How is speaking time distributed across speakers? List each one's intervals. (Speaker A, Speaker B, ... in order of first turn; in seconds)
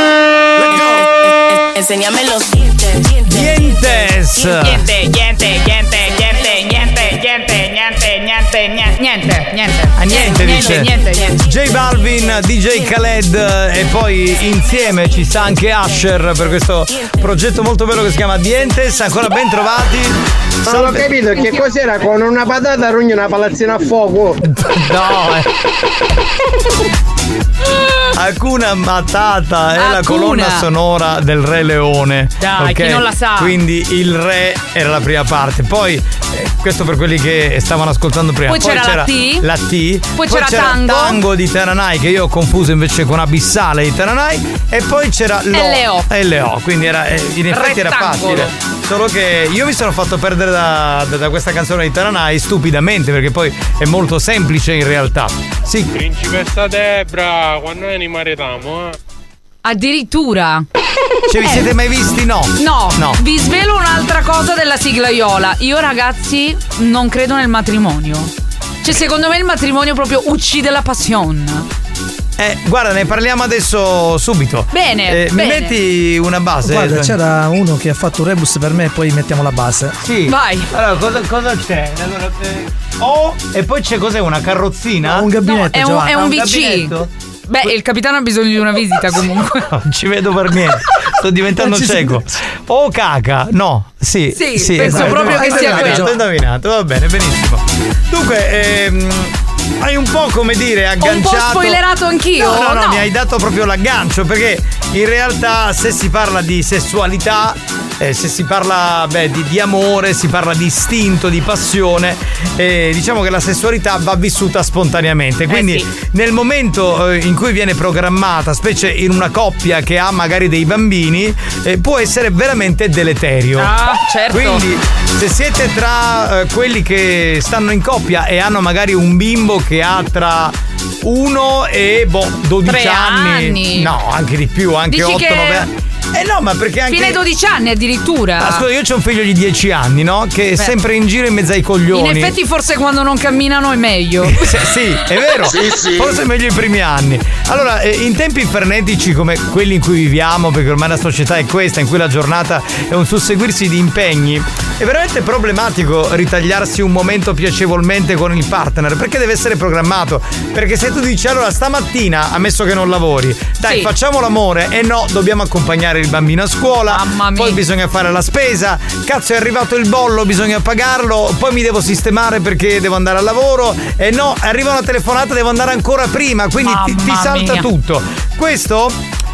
Speaker A: 0.8-4.0, 6.1-6.6, 10.1-12.2
Speaker B: 3.3-4.9, 10.0-21.1, 24.4-25.5, 28.1-55.9, 61.3-63.2, 72.4-77.2, 80.0-85.3, 86.1-87.1, 89.6-101.8, 102.3-123.7, 124.3-137.2, 138.4-142.3, 144.2-179.0
Speaker C: 4.4-11.3, 29.8-30.7, 32.4-33.6, 38.5-39.5, 40.2-41.2, 45.5-46.1, 47.5-48.5, 59.6-60.6, 62.6-68.3, 68.8-71.7, 74.7-75.7, 80.3-80.7, 85.5-87.0, 87.5-89.6, 94.3-96.1, 101.0-103.1, 115.5-115.9, 123.6-124.6, 132.7-133.9, 134.9-135.7, 136.9-138.6, 141.9-144.7, 163.6-163.9, 166.9-167.6, 176.6-177.7
Speaker D: 20.6-24.4
Speaker E: 56.0-58.9
Speaker F: 76.6-80.0, 85.0-86.2, 91.5-92.2, 94.7-96.2